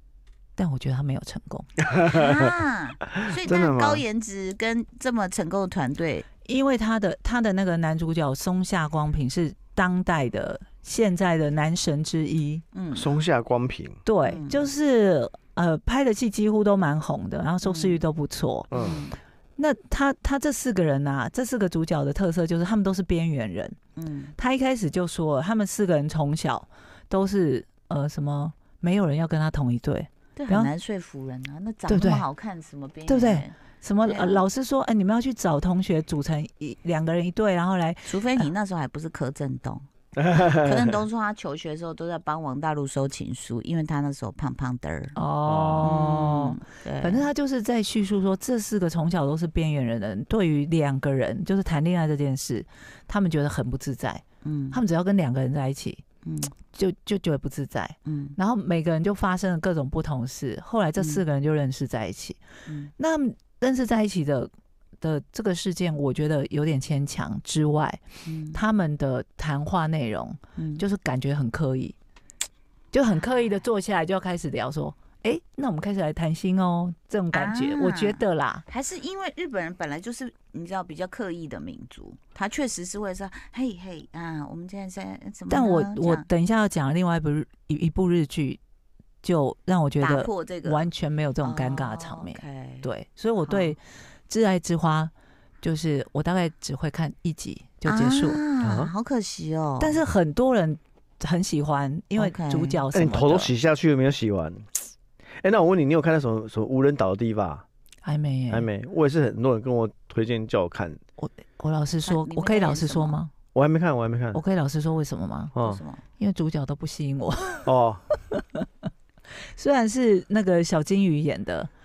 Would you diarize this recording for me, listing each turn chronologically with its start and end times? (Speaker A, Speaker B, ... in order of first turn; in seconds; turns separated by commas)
Speaker A: 0.6-1.7, Speaker B: 2.1-6.3, Speaker C: 2.2-2.4, Speaker C: 3.3-4.0, Speaker A: 6.5-12.6, Speaker B: 12.7-13.1, Speaker C: 12.9-14.0, Speaker A: 14.1-18.7, Speaker B: 14.2-14.7, Speaker B: 17.6-18.0, Speaker C: 18.7-19.0, Speaker B: 18.7-19.2, Speaker A: 19.6-23.8, Speaker B: 24.0-24.3, Speaker A: 24.4-30.7, Speaker B: 30.4-34.5, Speaker A: 31.9-32.2, Speaker A: 33.1-38.5, Speaker B: 38.1-39.9, Speaker C: 40.2-41.0, Speaker B: 40.6-45.1, Speaker A: 45.1-56.0, Speaker C: 45.5-45.9, Speaker B: 45.8-47.3, Speaker B: 54.4-54.8, Speaker B: 56.2-56.5, Speaker A: 56.7-62.4, Speaker B: 58.1-58.4, Speaker B: 61.0-61.2, Speaker B: 62.7-62.9, Speaker A: 63.0-68.0, Speaker B: 68.2-68.6, Speaker A: 68.5-72.0, Speaker B: 70.6-70.8, Speaker A: 72.9-78.6, Speaker B: 77.3-86.3, Speaker A: 85.5-88.6, Speaker A: 89.2-98.4, Speaker B: 90.0-90.9, Speaker B: 91.4-92.9, Speaker B: 93.5-93.8, Speaker B: 97.9-100.0, Speaker C: 98.6-98.9, Speaker A: 99.8-103.5, Speaker B: 102.2-102.8, Speaker C: 102.9-104.7, Speaker C: 105.4-107.6, Speaker A: 108.0-108.7, Speaker C: 108.5-111.0, Speaker A: 111.2-113.3, Speaker B: 112.0-113.2, Speaker C: 113.5-114.4, Speaker A: 114.3-115.5, Speaker C: 115.5-115.8, Speaker B: 115.6-116.0, Speaker A: 116.2-117.7, Speaker C: 117.7-118.0, Speaker A: 119.6-121.7